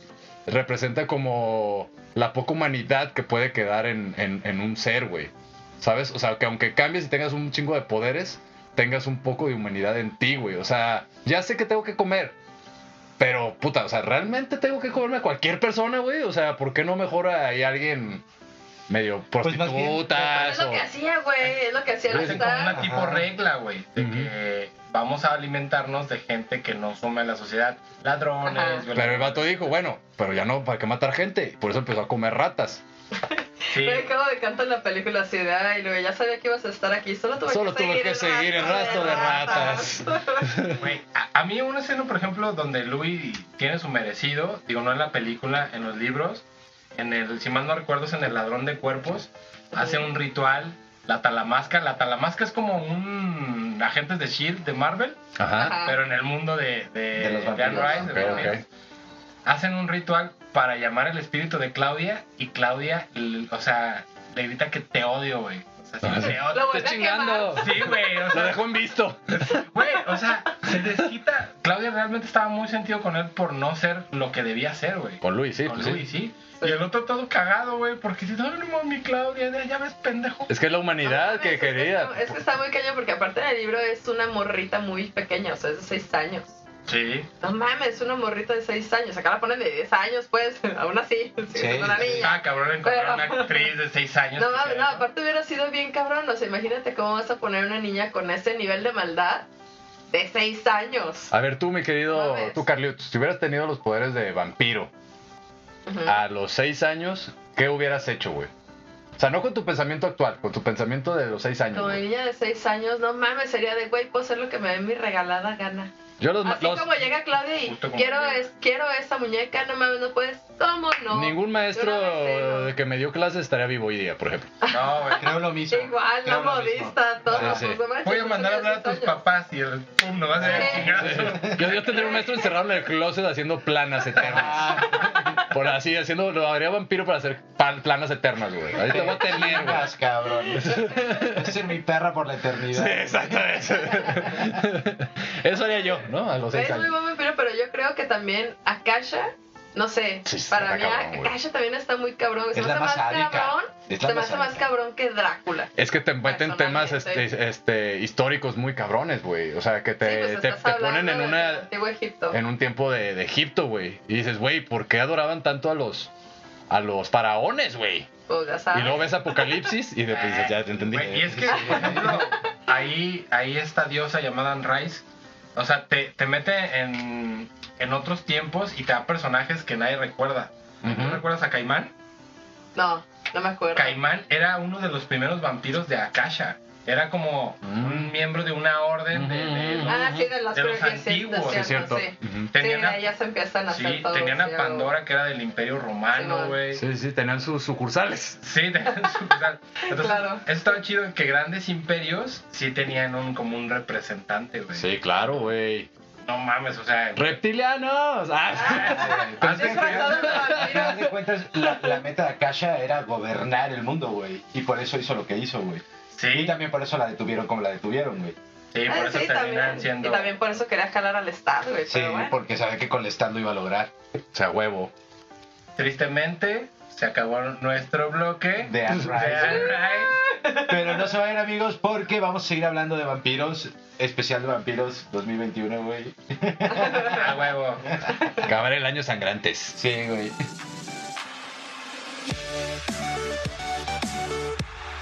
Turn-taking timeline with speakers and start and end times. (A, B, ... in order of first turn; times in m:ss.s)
0:00.5-0:12.4 A
0:13.2-0:18.2 A
0:18.9-0:20.8 A
0:19.4-0:20.5 B
0:20.2-0:22.8 C
0:22.1-0:29.7 D
0:22.2-0:23.3 B
0:24.0-0:24.3 A
0:28.4-0:28.8 C
0:29.0-0:32.8 A
0:33.2-0:40.5 C
0:33.7-0:34.1 D
0:37.5-0:40.8 A
0:40.7-0:46.4 D
0:47.0-0:58.6 D
0:49.8-0:50.1 C
0:55.4-0:55.8 A
0:55.6-0:56.0 C
0:57.2-0:58.4 B
0:57.7-0:58.5 C
0:58.0-0:58.6 A
0:59.4-1:06.9 D
1:06.0-1:09.6 A
1:06.5-1:07.7 C
1:07.5-1:08.7 D
1:09.3-1:20.5 D
1:15.2-1:16.0 A
1:20.5-1:22.4 A
1:21.0-1:26.6 C
1:26.9-1:27.3 D
1:27.4-1:33.7 C
1:31.5-1:32.3 B
1:32.0-1:35.0 D
1:34.4-1:39.5 C
1:40.1-1:41.3 C
1:41.3-1:44.9 A
1:42.1-1:42.6 C
1:45.9-1:46.2 C
1:46.1-1:48.5 A
1:49.2-1:52.0 A
1:51.7-1:55.9 C
1:56.2-1:56.9 A
1:56.4-2:02.7 C
1:57.6-1:58.5 D
2:01.1-2:04.5 A
2:04.6-2:09.2 C
2:04.7-2:05.3 D
2:05.1-2:07.6 B
2:07.3-2:07.8 A
2:08.0-2:12.1 D
2:10.4-2:11.2 C
2:10.5-2:19.9 A
2:10.6-2:11.6 B
2:11.7-2:12.5 C
2:14.2-2:15.4 B
2:18.8-2:23.6 B
2:20.6-2:21.6 A
2:22.7-2:26.9 A
2:26.5-2:35.7 C
2:30.2-2:31.3 A
2:32.5-2:34.7 B
2:35.8-2:41.7 A
2:36.2-2:37.3 C
2:40.0-2:42.4 C
2:42.3-2:46.1 A
2:46.7-2:48.1 A
2:48.3-2:49.5 C
2:48.7-2:52.3 A
2:50.1-2:55.0 D
2:50.8-2:52.2 B
2:52.1-2:52.4 C
2:55.6-3:01.9 D
3:00.8-3:01.2 A
3:02.8-3:04.0 C
3:03.8-3:11.9 D
3:07.6-3:08.1 A
3:09.1-3:10.3 A
3:09.9-3:14.9 C
3:11.5-3:12.5 A
3:12.5-3:13.0 D
3:13.7-3:16.8 D
3:16.1-3:16.6 C
3:16.7-3:18.4 A
3:18.4-3:24.9 D
3:19.9-3:20.4 C
3:24.8-3:25.9 A
3:26.3-3:27.4 D
3:27.2-3:31.0 A
3:28.6-3:30.2 D
3:28.6-3:32.0 C
3:28.8-3:38.4 B
3:36.2-3:36.6 D
3:38.7-3:40.3 D
3:38.9-3:42.4 C
3:41.9-3:43.9 B
3:44.3-3:44.9 A
3:45.8-3:50.2 D
3:48.7-3:49.8 B
3:49.5-3:50.8 C
3:50.6-3:57.3 B
3:56.7-3:57.2 C
3:57.1-3:57.9 D
3:58.2-3:58.4 C
3:58.4-3:59.8 A
3:59.7-4:00.4 B